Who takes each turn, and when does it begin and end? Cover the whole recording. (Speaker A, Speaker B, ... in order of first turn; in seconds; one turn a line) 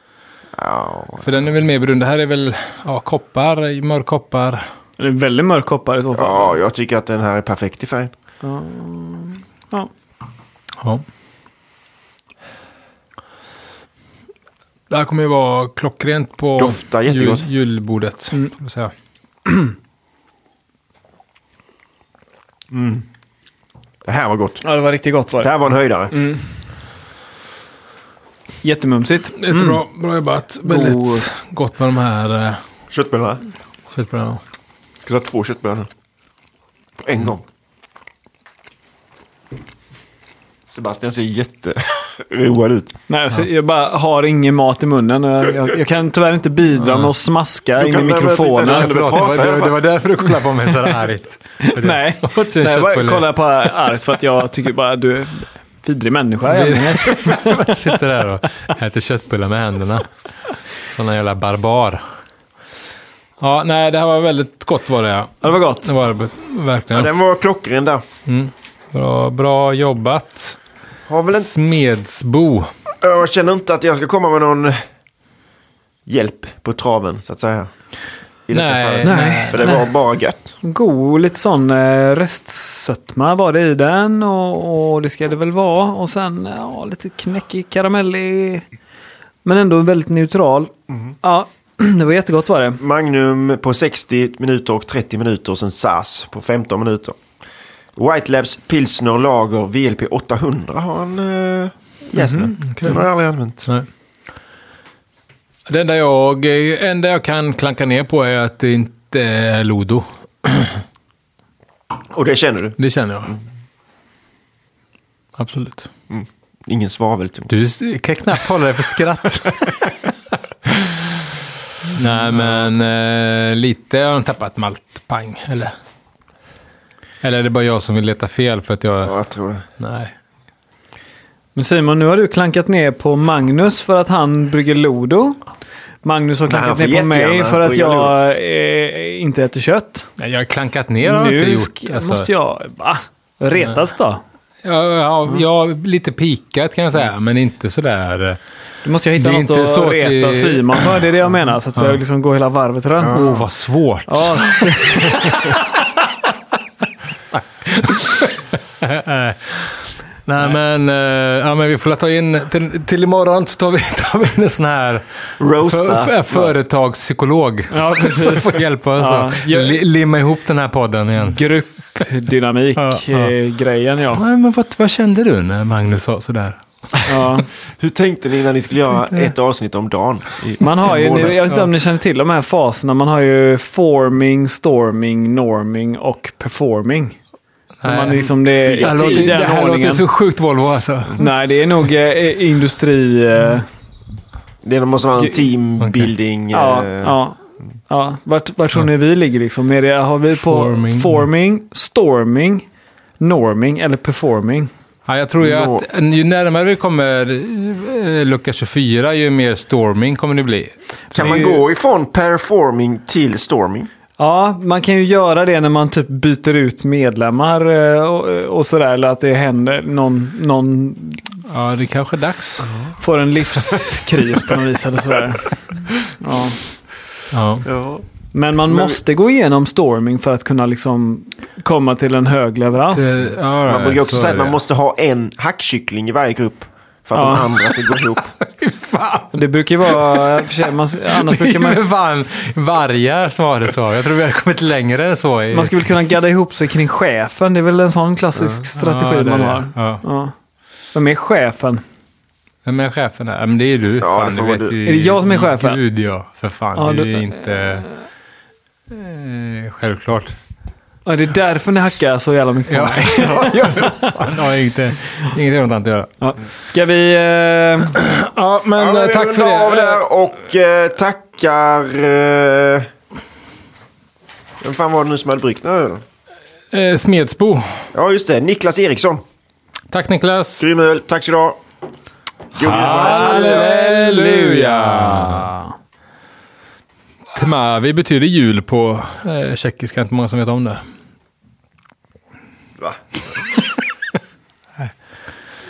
Speaker A: 0.6-1.3
Speaker B: 1.2-4.6
Speaker C: 5.0-6.6
Speaker A: 6.2-8.1
Speaker C: 8.4-9.9
Speaker B: 14.9-18.9
Speaker A: 16.6-17.5
Speaker A: 22.7-23.0
Speaker A: 24.1-24.6
Speaker C: 24.6-25.6
Speaker A: 25.4-26.1
Speaker C: 26.1-26.5
Speaker C: 28.6-29.8
Speaker B: 29.4-32.6
Speaker C: 30.6-31.3
Speaker A: 32.9-33.4
Speaker B: 33.9-34.4
Speaker A: 35.0-35.9
Speaker A: 37.0-37.4
Speaker A: 40.7-42.9
Speaker C: 43.1-49.0
Speaker B: 46.8-47.1
Speaker A: 47.8-49.8
Speaker B: 48.6-53.3
Speaker C: 51.6-57.9
Speaker B: 56.5-60.1
Speaker B: 60.8-62.0
Speaker B: 63.4-67.1
Speaker C: 65.4-65.9
Speaker A: 66.9-68.0
Speaker B: 68.3-70.6
Speaker A: 71.1-71.5
Speaker B: 71.3-72.7
Speaker A: 73.0-74.8
Speaker A: 76.1-77.7
Speaker A: 78.5-80.5
Speaker B: 78.5-79.8
Speaker C: 79.0-79.9
Speaker C: 80.6-88.7
Speaker C: 89.5-92.8
Speaker A: 92.8-97.2
Speaker A: 98.0-103.7
Speaker C: 102.2-102.5
Speaker B: 102.6-103.0
Speaker B: 105.7-110.8
Speaker A: 112.1-112.8
Speaker B: 112.8-113.4
Speaker B: 115.4-115.9
Speaker A: 116.1-117.5
Speaker B: 117.5-120.1
Speaker B: 121.9-125.7
Speaker B: 127.2-129.2
Speaker A: 129.0-129.7
Speaker B: 129.8-130.1
Speaker C: 131.6-135.4
Speaker C: 136.0-140.1
Speaker A: 136.5-138.2
Speaker B: 140.2-142.3
Speaker C: 141.0-144.2
Speaker B: 144.6-148.4
Speaker C: 148.8-153.4
Speaker B: 149.2-151.0
Speaker A: 153.0-153.4
Speaker B: 153.1-155.7
Speaker C: 154.1-155.6
Speaker B: 157.3-159.7
Speaker B: 160.3-171.4
Speaker A: 165.4-166.5
Speaker C: 167.7-169.8
Speaker C: 171.2-174.2
Speaker B: 172.8-173.3
Speaker B: 174.1-176.8
Speaker C: 177.1-177.5
Speaker A: 177.8-181.4
Speaker C: 180.6-187.2
Speaker B: 180.9-181.7
Speaker B: 187.8-191.3
Speaker C: 187.8-190.1
Speaker A: 188.7-189.4
Speaker C: 191.2-193.7
Speaker A: 194.6-197.2
Speaker B: 195.8-196.1
Speaker C: 196.5-202.7
Speaker B: 200.4-201.3
Speaker C: 203.2-204.7
Speaker B: 205.1-211.3
Speaker A: 205.4-205.9
Speaker A: 211.1-213.9
Speaker C: 211.2-211.6
Speaker C: 214.2-221.4
Speaker B: 221.5-222.7
Speaker C: 223.0-226.6
Speaker B: 227.3-227.7
Speaker A: 227.7-228.0
Speaker C: 228.3-233.3
Speaker A: 228.7-229.0
Speaker B: 232.9-234.6
Speaker A: 233.7-238.3
Speaker C: 237.1-237.5
Speaker B: 237.9-240.2
Speaker C: 239.3-241.8
Speaker B: 241.1-245.8
Speaker C: 245.5-250.3
Speaker B: 248.7-250.0
Speaker C: 250.9-251.8
Speaker B: 252.7-257.9
Speaker A: 254.0-254.8
Speaker C: 254.8-255.8
Speaker C: 256.8-257.9
Speaker B: 258.9-260.3
Speaker C: 261.1-264.1
Speaker B: 262.7-266.1
Speaker C: 266.2-268.0
Speaker B: 267.9-270.0
Speaker A: 268.8-272.9
Speaker A: 274.6-276.0
Speaker B: 276.7-277.8
Speaker A: 277.9-279.2
Speaker B: 279.9-280.6
Speaker A: 280.6-281.6
Speaker A: 282.6-283.8
Speaker B: 282.6-285.5
Speaker C: 282.6-285.7
Speaker B: 287.3-290.8